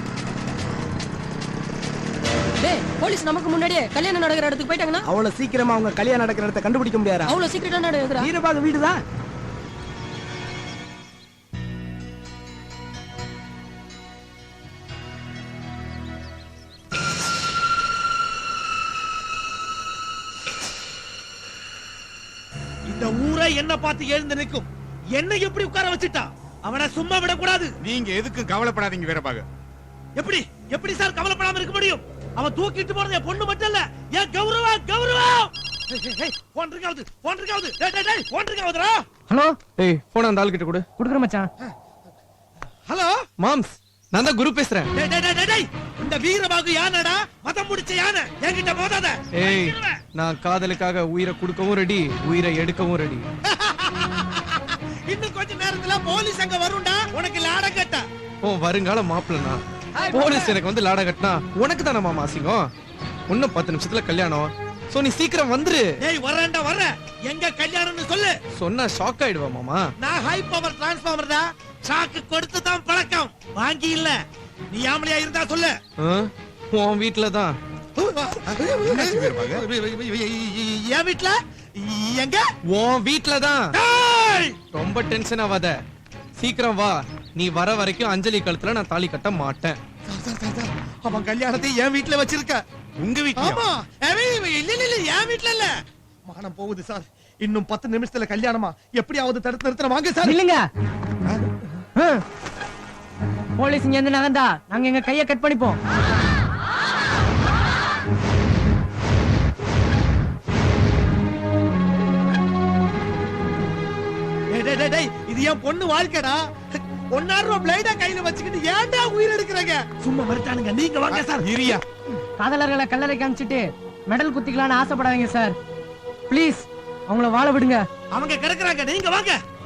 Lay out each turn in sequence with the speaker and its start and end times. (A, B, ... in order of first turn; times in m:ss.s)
0:02.6-0:05.0 A
0:05.0-0:07.4 B
0:07.3-0:08.3 A
0:08.2-0:09.0 B
0:22.9-0:27.7 C
0:27.8-0:29.4 D
0:30.2-0:39.0 C
0:39.3-0:39.6 E
0:39.8-0:40.8 F
0:41.0-0:41.5 E
0:42.9-0:43.2 C
0:43.4-0:44.9 F
0:45.0-0:49.9 C
0:49.4-0:53.2 F
0:53.5-0:58.0 C
0:58.4-1:02.7 F
1:00.0-1:00.5 C
1:03.3-1:05.9 F
1:06.1-1:08.3 C
1:08.6-1:09.9 F
1:10.0-1:14.2 C
1:14.7-1:15.7 C
1:16.0-1:17.6 F
1:18.0-1:22.4 C
1:18.9-1:19.6 D
1:22.7-1:23.7 F
1:23.8-1:24.5 C
1:24.7-1:25.8 F
1:26.4-1:29.8 F
1:30.1-1:32.6 C
1:33.0-1:33.6 D
1:33.4-1:35.7 C
1:36.3-1:40.4 C
1:40.2-1:40.6 E
1:42.0-1:42.2 E
1:43.6-1:45.8 E
1:54.5-2:01.4 C
2:01.1-2:01.8 D
2:02.4-2:05.6 E
2:06.3-2:07.8 E
2:08.1-2:09.4 C